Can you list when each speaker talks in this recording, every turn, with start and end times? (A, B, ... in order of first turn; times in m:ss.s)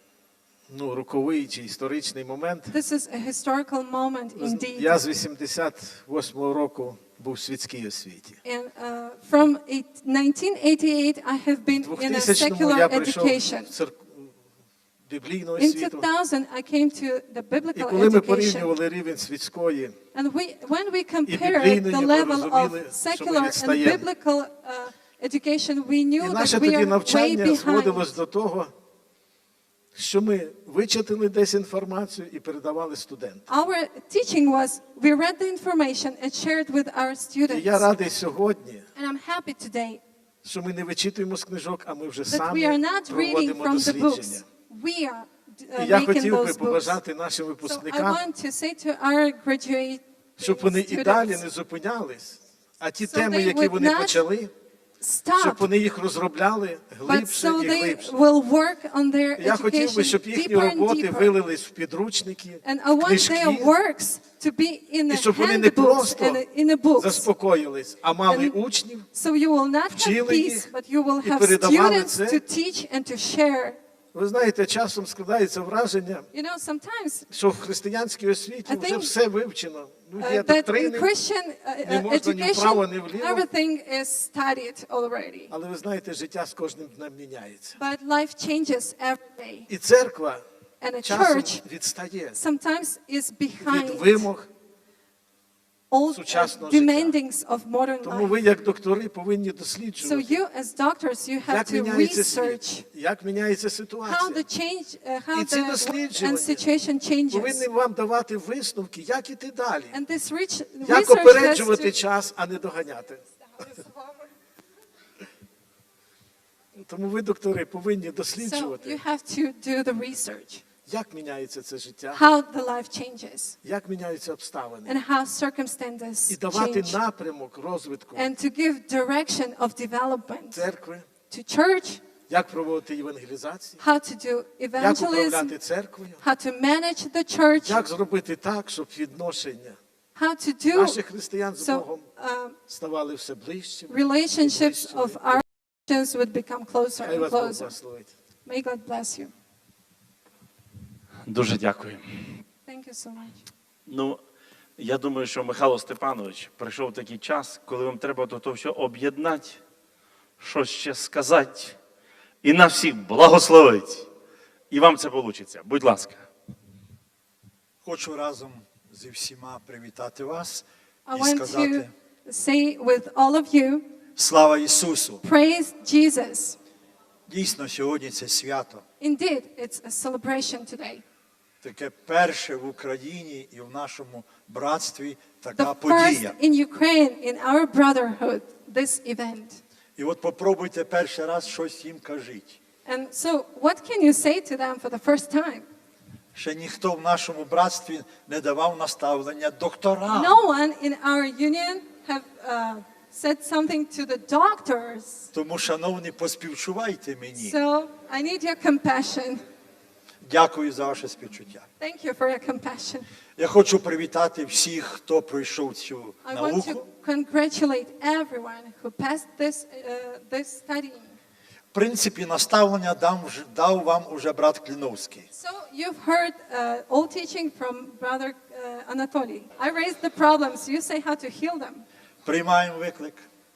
0:00.7-0:02.8 A
0:02.7-0:05.0 B
0:04.4-0:08.4 A
0:08.4-0:13.7 B
0:11.8-0:14.4 A
0:15.0-0:16.0 A
0:15.6-0:18.7 B
0:17.8-0:20.0 A
0:20.1-0:28.1 B
0:21.3-0:24.1 A
0:26.2-0:28.7 A
0:29.9-0:33.4 A
0:33.5-0:37.9 B
0:37.5-0:38.9 A
0:39.0-0:40.0 B
0:40.4-0:44.5 A
0:42.3-0:47.0 B
0:45.8-0:48.2 A
0:47.6-0:51.4 B
0:50.4-0:54.5 A
0:53.0-0:54.2 B
0:55.0-0:55.7 B
0:55.4-0:58.2 A
0:57.0-1:01.3 B
0:59.4-1:03.7 A
1:02.6-1:07.3 B
1:05.1-1:06.4 A
1:07.0-1:09.1 A
1:08.3-1:13.8 B
1:09.9-1:10.7 A
1:11.2-1:12.4 A
1:14.1-1:16.3 A
1:16.3-1:17.3 B
1:17.3-1:21.1 A
1:18.7-1:19.1 B
1:20.2-1:25.5 B
1:21.8-1:23.5 A
1:25.5-1:27.8 A
1:27.8-1:29.7 B
1:29.7-1:30.4 A
1:30.8-1:31.6 B
1:31.0-1:32.4 A
1:32.3-1:34.3 B
1:33.6-1:34.5 A
1:35.9-1:38.4 B
1:36.1-1:37.2 A
1:38.0-1:40.4 A
1:40.0-1:42.9 B
1:41.5-1:44.4 A
1:44.0-1:47.6 B
1:45.3-1:46.6 A
1:47.3-1:50.0 A
1:49.9-1:51.9 B
1:50.8-1:53.2 A
1:56.8-1:59.0 A
1:58.4-2:00.6 B
2:00.9-2:02.2 A
2:02.1-2:03.6 B
2:03.6-2:05.0 A
2:04.8-2:07.0 B
2:06.3-2:08.3 A
2:08.2-2:10.6 B
2:10.5-2:11.1 A
2:11.3-2:12.0 B
2:12.3-2:13.8 A
2:13.8-2:15.6 B
2:14.8-2:16.2 A
2:16.2-2:17.8 B
2:17.6-2:19.8 A
2:20.2-2:21.0 B
2:20.7-2:22.1 A
2:21.6-2:22.6 B
2:22.7-2:25.4 A
2:23.9-2:27.7 B
2:27.0-2:28.1 A
2:28.4-2:29.3 B
2:31.3-2:32.0 C
2:32.7-2:33.4 B
2:33.9-2:34.2 C
2:34.8-2:39.6 C
2:40.4-2:41.8 C
2:42.4-2:44.1 C
2:44.7-2:46.2 C
2:47.8-2:51.9 D
2:51.1-2:53.8 B
2:54.2-2:55.2 D
2:55.2-2:56.6 B
2:57.3-2:58.8 D
2:59.0-3:01.0 B
3:01.6-3:06.4 D
3:05.5-3:09.6 B
3:10.0-3:12.6 D
3:12.9-3:15.7 B
3:16.4-3:20.4 D
3:20.1-3:25.3 B
3:25.3-3:27.6 D
3:27.4-3:29.4 B
3:30.2-3:31.7 D
3:31.8-3:33.1 B
3:33.4-3:36.8 D
3:36.2-3:41.2 B
3:41.7-3:45.3 D
3:45.3-3:51.9 B
3:52.2-3:53.2 D